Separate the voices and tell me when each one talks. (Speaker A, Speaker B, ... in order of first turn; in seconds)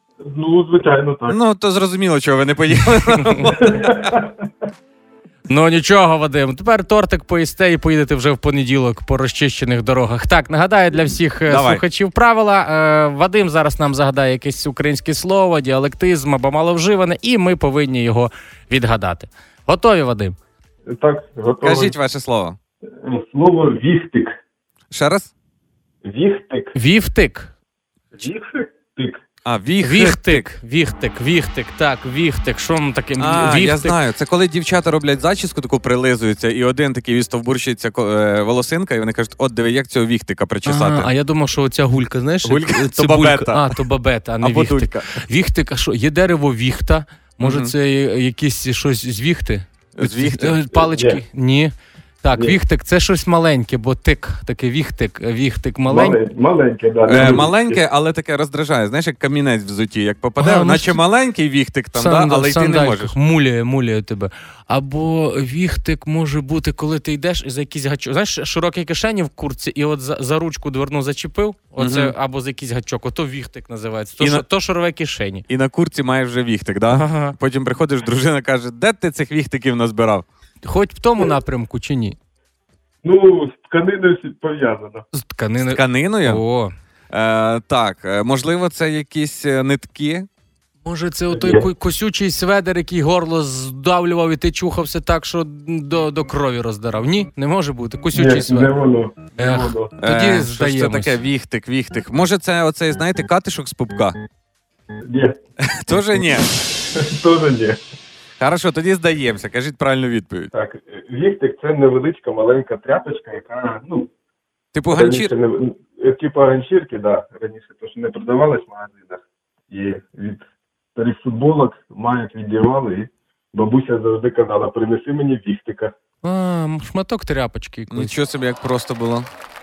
Speaker A: 0.2-1.4, 3.5-4.3, 20.9-21.9, 22.9-24.4, 26.0-26.7, 28.1-29.2, 50.7-51.2, 55.9-57.8, 83.0-85.0, 91.3-91.7, 98.1-99.9, 105.0-105.4, 106.3-107.8, 110.5-114.1, 114.9-120.4, 121.0-125.9
Speaker B: 1.3-4.1, 11.5-11.8, 21.6-22.6, 24.9-25.3, 29.4-30.5, 33.2-41.1, 42.4-43.8, 44.4-45.1, 47.4-47.7, 50.0-50.6, 57.1-63.1, 71.8-72.1, 74.2-74.4, 75.5-80.2, 85.7-86.4, 87.1-90.3, 100.0-104.2, 105.6-106.5, 108.4-110.5, 114.7-115.3, 127.9-129.3
Speaker C: 5.5-20.4, 26.7-27.5, 29.8-34.0, 40.6-56.2, 57.1-57.4, 60.4-61.0, 62.0-75.4, 76.9-77.3, 80.6-82.2, 85.1-86.7, 90.8-98.7, 99.4-101.2, 126.2-128.1